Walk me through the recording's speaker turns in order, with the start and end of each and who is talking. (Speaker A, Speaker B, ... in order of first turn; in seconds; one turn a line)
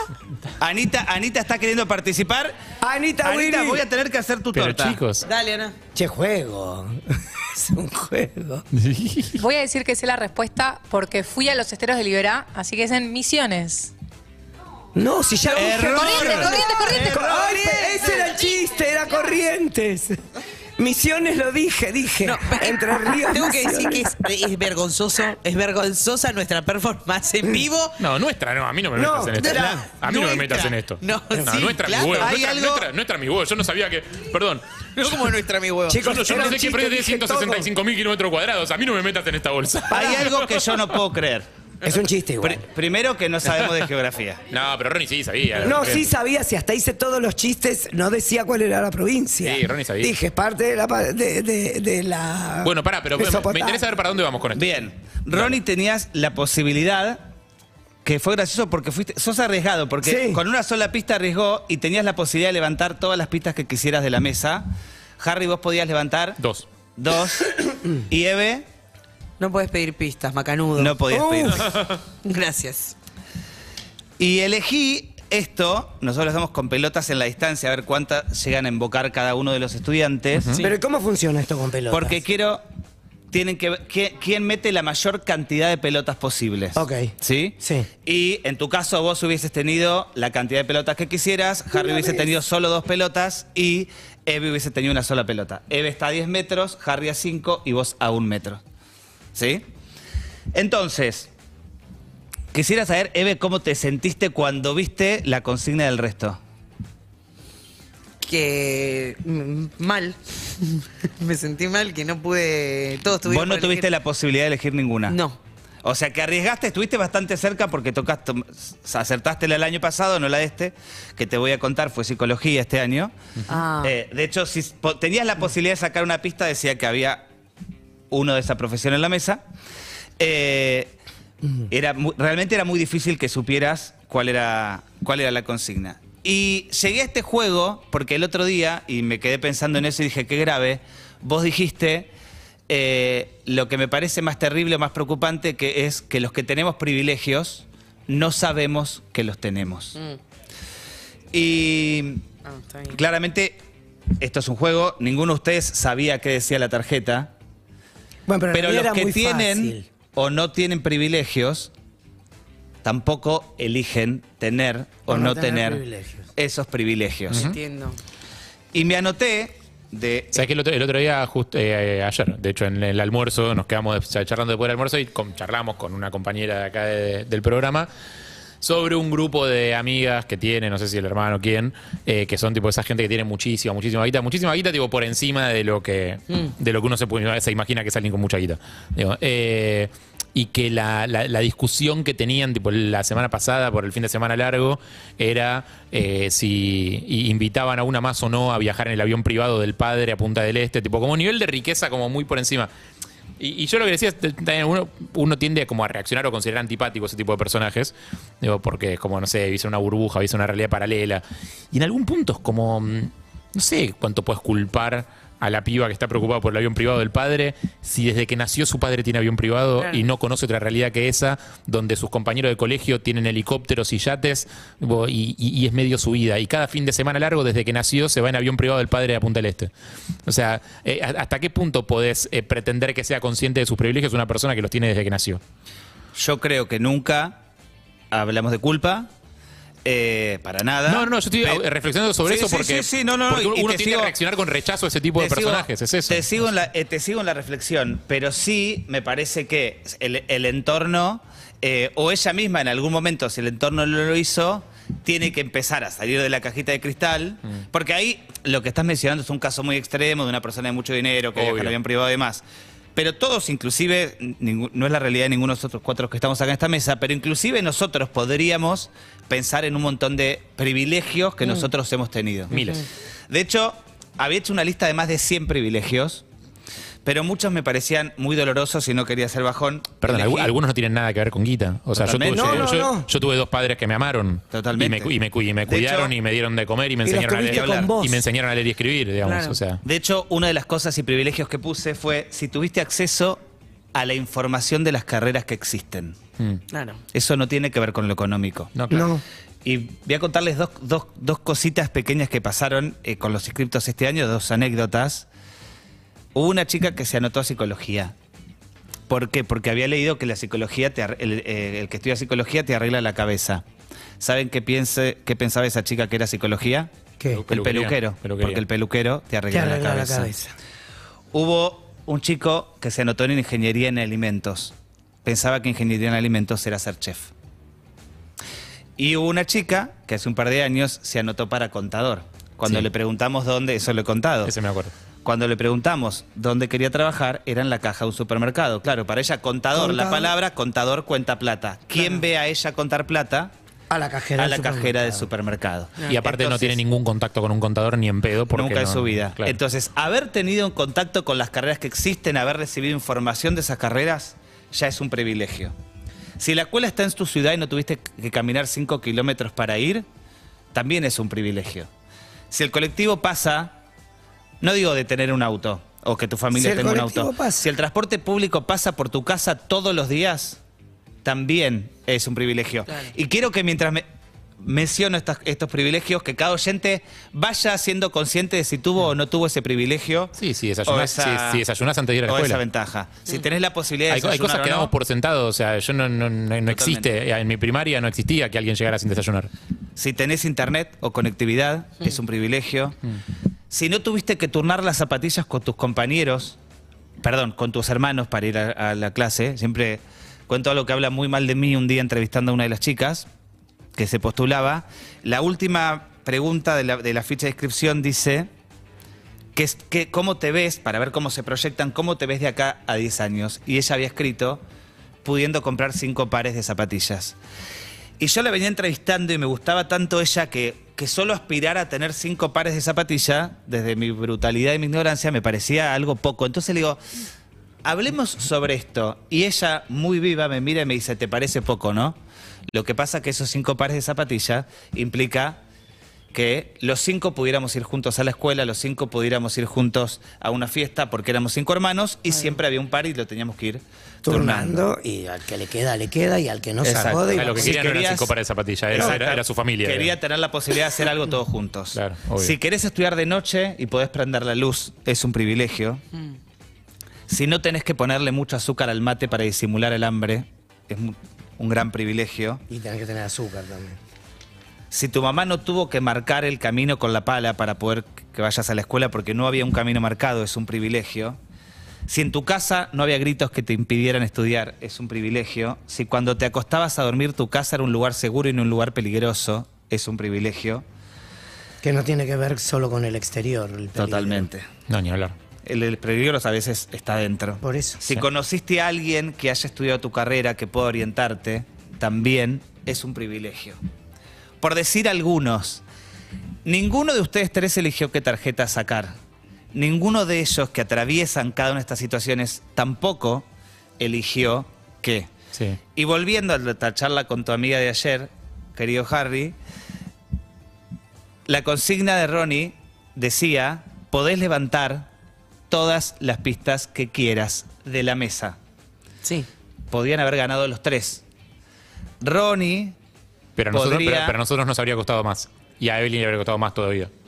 Speaker A: 0.6-2.5
Speaker B: 2.8-3.9
Speaker A: 3.2-5.0
Speaker C: 4.5-5.3
Speaker D: 5.2-5.8
Speaker B: 6.0-6.9
Speaker B: 7.6-8.7
Speaker C: 8.8-9.4
Speaker E: 9.3-13.9
Speaker B: 14.9-20.2
Speaker D: 15.4-18.1
Speaker A: 15.6-18.2
Speaker E: 16.0-17.9
Speaker B: 20.8-24.1
Speaker D: 22.2-28.0
Speaker C: 28.0-35.2
Speaker B: 28.9-29.8
Speaker D: 29.4-32.4
Speaker A: 32.2-32.9
Speaker D: 35.0-36.5
Speaker B: 35.9-37.7
Speaker C: 36.0-40.8
Speaker B: 39.9-40.4
Speaker A: 40.0-41.5
Speaker B: 41.8-42.6
Speaker A: 42.4-44.4
Speaker C: 44.5-46.1
Speaker B: 45.6-53.9
Speaker C: 49.4-50.1
Speaker C: 52.6-54.8
Speaker A: 54.5-57.3
Speaker C: 55.3-55.6
Speaker A: 58.0-64.7
Speaker B: 60.0-60.4
Speaker A: 65.2-66.4
Speaker C: 66.4-66.7
Speaker A: 66.9-67.6
Speaker A: 68.1-68.7
Speaker D: 69.4-71.0
Speaker A: 70.8-71.6
Speaker B: 71.1-71.7
Speaker D: 72.2-73.0
Speaker A: 74.2-80.7
Speaker C: 80.4-80.7
Speaker B: 80.6-82.2
Speaker A: 81.9-82.6
Speaker A: 83.3-98.6
Speaker B: 86.8-87.9
Speaker B: 91.7-92.3
Speaker A: 99.3-99.7
Speaker A: 100.5-101.3
Speaker A: 102.5-106.4
Speaker D: 108.2-113.9
Speaker A: 113.3-115.2
Speaker D: 115.1-115.4
Speaker A: 115.8-123.1
Speaker D: 123.5-123.9
Speaker A: 123.8-127.2
Speaker A: 128.1-129.4
Speaker A: 130.2-130.9
Speaker A: 131.7-142.1
Speaker A: 142.7-150.0
Speaker A: 151.3-152.2
Speaker D: 152.4-153.0
Speaker A: 152.9-153.6
Speaker A: 154.2-157.3
Speaker B: 158.3-159.9
Speaker A: 158.5-161.7
Speaker A: 162.8-165.8
Speaker B: 165.1-166.3
Speaker A: 166.4-167.4
Speaker D: 167.3-168.0
Speaker C: 167.3-167.6
Speaker A: 168.7-170.4
Speaker C: 170.3-177.9
Speaker C: 178.6-202.7
Speaker C: 203.4-229.7
Speaker D: 219.8-220.0
Speaker C: 230.3-235.4
Speaker A: 236.2-237.4
Speaker A: 238.1-239.1
Speaker A: 239.8-241.7
Speaker C: 240.9-246.4
Speaker A: 242.2-244.2
Speaker A: 245.2-262.4
Speaker C: 261.4-261.8
Speaker A: 263.0-272.5
Speaker D: 272.5-272.8
Speaker C: 272.5-272.9
Speaker A: 273.3-276.2
Speaker A: 277.1-280.5
Speaker C: 280.0-289.8
Speaker A: 282.0-282.7
Speaker B: 282.3-283.1
Speaker A: 284.5-286.1
Speaker B: 287.0-288.2
Speaker A: 287.5-287.9
Speaker D: 289.2-289.6
Speaker A: 289.8-293.4
Speaker A: 293.9-296.2
Speaker D: 296.7-297.0
Speaker A: 297.1-298.7
Speaker C: 298.8-299.1
Speaker B: 298.9-299.2
Speaker A: 299.6-305.3
Speaker A: 306.4-308.1
Speaker A: 309.1-313.6
Speaker A: 314.2-316.9
Speaker C: 317.3-318.6
Speaker A: 317.5-320.3
Speaker B: 319.5-320.5
Speaker A: 321.3-324.7
Speaker A: 325.2-327.3
Speaker A: 329.0-334.5
Speaker C: 334.4-334.9
Speaker A: 335.2-343.5
Speaker B: 339.7-340.3
Speaker B: 343.9-345.3
Speaker A: 344.4-346.8
Speaker C: 346.0-349.6
Speaker A: 348.5-355.7
Speaker A: 356.4-360.1
Speaker A: 360.7-361.9
Speaker A: 362.5-363.8
Speaker A: 364.6-370.6
Speaker B: 366.5-367.7
Speaker A: 371.2-374.0
Speaker A: 374.6-381.6
Speaker C: 380.4-382.6
Speaker A: 382.2-384.9
Speaker C: 384.1-389.5
Speaker A: 386.7-387.1
Speaker A: 390.0-393.0
Speaker A: 393.7-396.6
Speaker A: 397.2-403.3
Speaker A: 404.0-408.5
Speaker A: 409.6-414.6
Speaker A: 415.2-417.4
Speaker A: 418.2-427.0
Speaker A: 427.9-432.2
Speaker A: 432.7-435.6
Speaker A: 436.3-444.9
Speaker B: 444.2-447.9
Speaker A: 446.8-448.3
Speaker C: 447.2-450.2
Speaker A: 448.9-456.0
Speaker B: 448.9-449.2
Speaker C: 451.9-452.6
Speaker A: 457.3-462.6
Speaker B: 462.7-464.0
Speaker A: 464.9-471.4
Speaker A: 472.1-480.9
Speaker B: 481.8-484.5
Speaker A: 483.9-484.7
Speaker C: 484.9-485.3
Speaker A: 485.6-493.8
Speaker B: 487.6-488.0
Speaker A: 494.6-495.8
Speaker A: 496.6-499.1
Speaker A: 499.7-503.5
Speaker A: 504.0-505.3
Speaker C: 505.5-505.8
Speaker A: 505.9-509.6
Speaker A: 511.5-515.1
Speaker A: 515.7-518.6
Speaker D: 519.2-519.5
Speaker A: 519.9-521.2
Speaker A: 522.2-523.0
Speaker C: 523.5-527.1
Speaker A: 523.7-524.4